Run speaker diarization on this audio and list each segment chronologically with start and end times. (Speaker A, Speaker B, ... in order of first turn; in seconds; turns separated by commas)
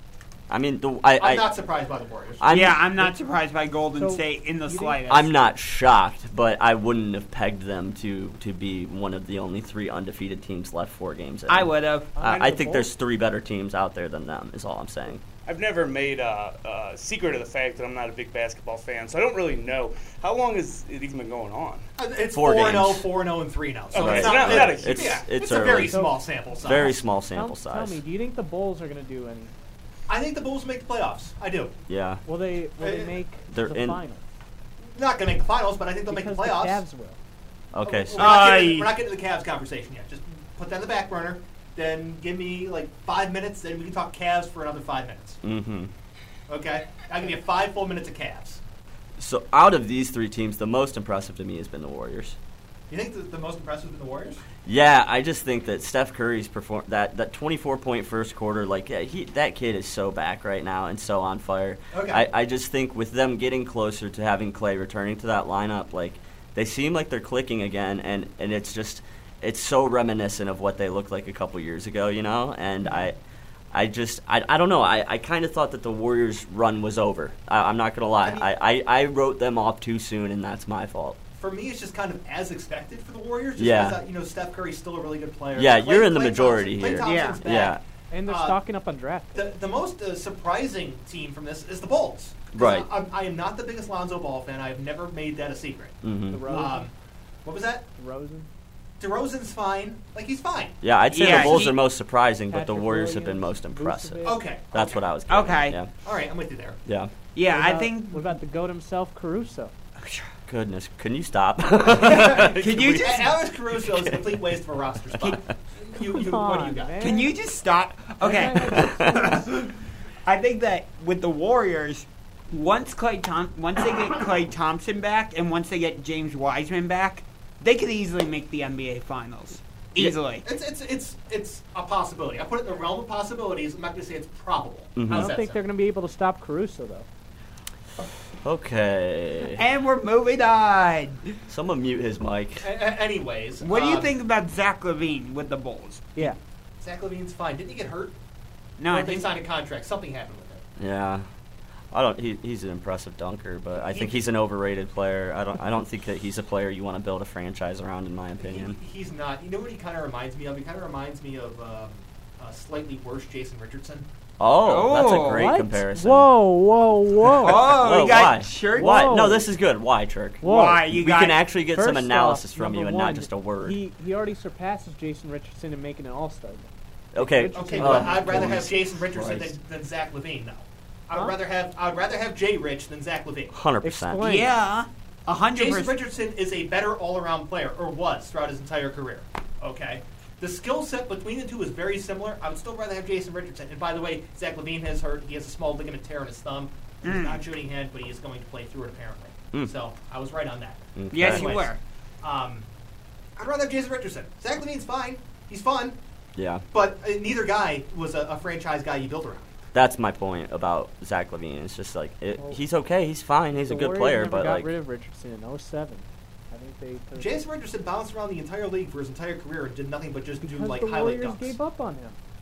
Speaker A: 0.5-1.5, Speaker B: 1.2-2.5, Speaker A: 2.4-2.9, Speaker C: 2.5-5.3, Speaker D: 4.0-5.0, Speaker A: 5.1-15.2, Speaker C: 11.5-12.1, Speaker D: 12.2-12.9, Speaker E: 15.5-21.9, Speaker B: 22.0-27.0, Speaker A: 22.3-23.1, Speaker E: 23.9-25.2, Speaker A: 23.9-26.0, Speaker D: 25.9-29.5, Speaker A: 26.6-28.0, Speaker B: 30.1-31.7, Speaker A: 31.9-32.2, Speaker D: 32.3-34.2, Speaker B: 32.8-33.2, Speaker A: 33.5-34.0, Speaker B: 34.9-36.8, Speaker D: 36.1-37.2, Speaker A: 37.7-38.4, Speaker B: 37.8-45.4, Speaker C: 38.2-38.9, Speaker A: 45.4-45.9, Speaker B: 46.5-48.6, Speaker A: 49.2-52.4, Speaker B: 52.9-54.4, Speaker A: 54.6-73.2, Speaker B: 61.9-62.2, Speaker B: 72.8-73.1, Speaker A: 73.7-81.2, Speaker B: 78.2-78.5, Speaker B: 81.3-88.6, Speaker A: 83.6-84.0, Speaker A: 85.5-87.8, Speaker C: 87.0-87.4, Speaker D: 88.1-89.5, Speaker B: 89.3-96.9, Speaker A: 92.5-92.9, Speaker A: 96.0-96.6, Speaker D: 96.3-96.9, Speaker B: 97.5-97.8, Speaker D: 98.0-98.5, Speaker B: 99.0-100.8, Speaker A: 100.8-105.9, Speaker C: 101.1-101.8, Speaker D: 102.5-104.4, Speaker B: 104.2-105.1, Speaker C: 105.3-105.8, Speaker B: 106.0-106.8, Speaker A: 106.9-107.1, Speaker C: 107.3-108.3, Speaker D: 107.5-109.7, Speaker A: 110.5-114.3, Speaker B: 111.9-117.1, Speaker C: 112.0-113.3, Speaker D: 116.0-117.3, Speaker C: 117.0-119.7, Speaker D: 118.2-119.5, Speaker A: 118.6-119.4, Speaker C: 120.3-130.4, Speaker B: 130.4-135.6, Speaker A: 135.0-135.3, Speaker D: 135.1-137.1, Speaker A: 138.4-139.6, Speaker C: 139.6-141.2, Speaker A: 141.5-142.7, Speaker B: 142.6-144.1, Speaker C: 143.6-146.2, Speaker B: 146.8-148.2, Speaker C: 148.8-149.3, Speaker B: 148.9-150.6, Speaker A: 150.8-151.3, Speaker A: 151.9-158.8, Speaker B: 153.8-154.2, Speaker B: 158.4-164.1, Speaker A: 164.4-166.3, Speaker C: 164.7-165.5, Speaker D: 165.3-167.8, Speaker C: 167.4-169.1, Speaker A: 167.5-173.8, Speaker D: 168.8-169.5, Speaker D: 170.4-171.0, Speaker C: 170.4-171.4, Speaker D: 171.7-178.7, Speaker A: 177.1-179.6, Speaker B: 177.5-183.6, Speaker A: 183.5-184.3, Speaker D: 183.8-184.5, Speaker C: 184.2-186.0, Speaker B: 185.6-202.7, Speaker C: 197.0-197.4, Speaker A: 201.0-201.6, Speaker C: 201.1-201.8, Speaker B: 203.4-206.0, Speaker A: 206.4-206.7, Speaker B: 206.7-209.5, Speaker A: 209.7-214.7, Speaker D: 213.7-217.3, Speaker B: 217.2-221.6, Speaker D: 220.4-222.2